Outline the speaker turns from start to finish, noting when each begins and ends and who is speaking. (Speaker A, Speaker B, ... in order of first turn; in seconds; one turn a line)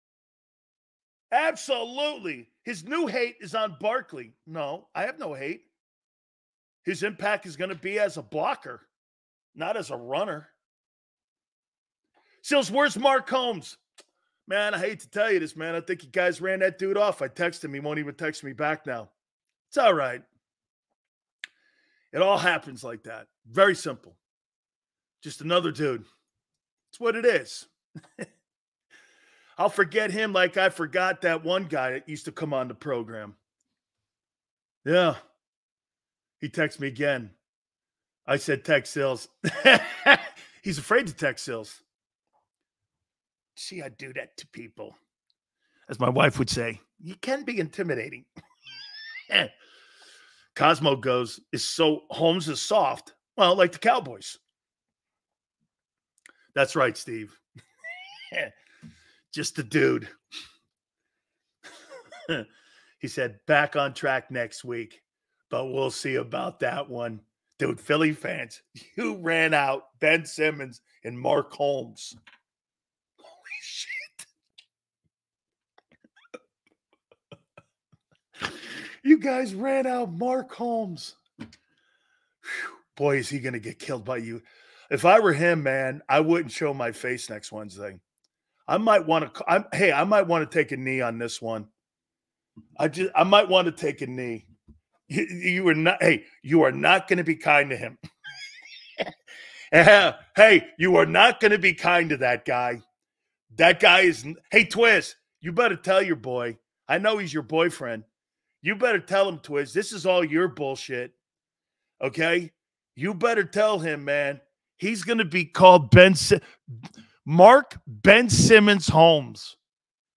Speaker A: 1.3-5.7
Speaker A: 6.8-8.9
Speaker A: 9.6-10.5
Speaker A: 12.4-13.8
Speaker A: 14.5-19.1
Speaker A: 19.7-20.2
Speaker A: 22.1-24.2
Speaker A: 25.2-26.0
Speaker A: 26.9-28.3
Speaker A: 29.6-33.4
Speaker A: 34.9-35.2
Speaker A: 36.4-37.3
Speaker A: 38.3-41.8
Speaker A: 43.6-45.0
Speaker A: 45.9-48.3
Speaker A: 50.5-54.4
Speaker A: 56.5-57.4
Speaker A: 59.3-60.1
Speaker A: 62.1-62.5
Speaker A: 63.0-72.2
Speaker A: 73.4-74.3
Speaker A: 78.5-81.2
Speaker A: 82.5-88.0
Speaker A: 88.7-91.7
Speaker A: 92.8-94.5
Speaker A: 95.1-98.0
Speaker A: 99.7-102.8
Speaker A: 103.5-108.0
Speaker A: 108.6-111.2
Speaker A: 112.0-119.6